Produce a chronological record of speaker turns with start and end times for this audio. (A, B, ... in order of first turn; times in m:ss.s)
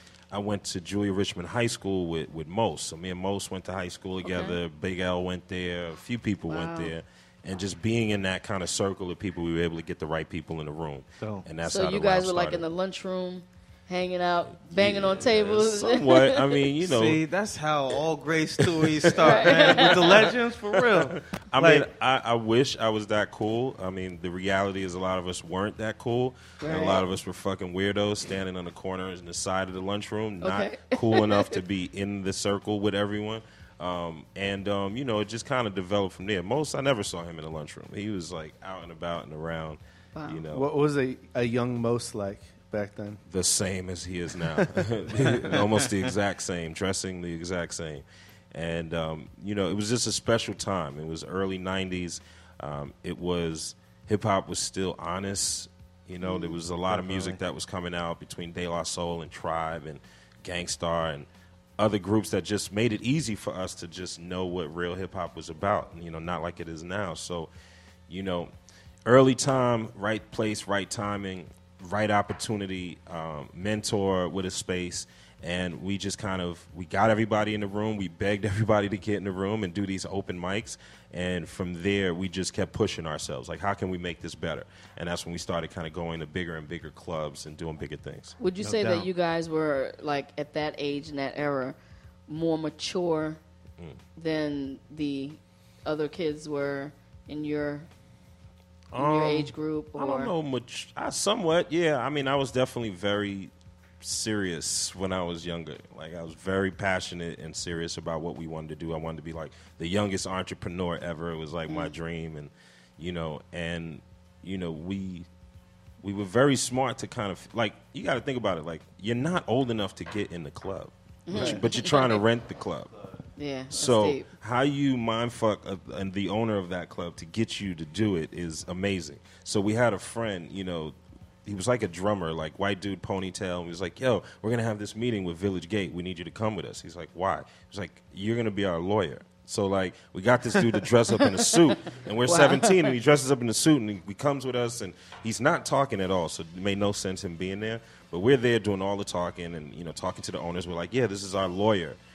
0:00.3-0:12.6 A
0:04.2-0:04.6 B
0:06.5-0:06.9 B
0:11.2-0:11.4 C
0:11.6-0:16.5 B
0:14.7-0:17.2 A
0:16.8-0:21.9 C
0:18.9-0:19.9 A
0:19.2-0:20.0 B
0:20.8-0:40.7 A
0:26.6-0:27.0 B
0:30.4-0:31.5 B
0:40.1-0:40.4 B
0:40.5-0:43.2 D
0:43.3-1:07.5 A
0:56.2-0:56.6 B
0:56.9-0:57.4 C
1:08.1-1:08.5 A
1:09.0-1:28.3 A
1:28.4-1:31.8 B
1:28.6-1:29.1 C
1:32.3-1:33.4 B
1:34.2-1:37.9 B
1:38.9-1:55.3 A
1:39.0-1:40.3 B
1:51.7-1:51.9 B
1:56.0-2:02.9 A
2:01.2-2:02.2 B
2:03.4-2:04.3 B
2:03.7-2:32.0 A
2:22.2-2:22.9 B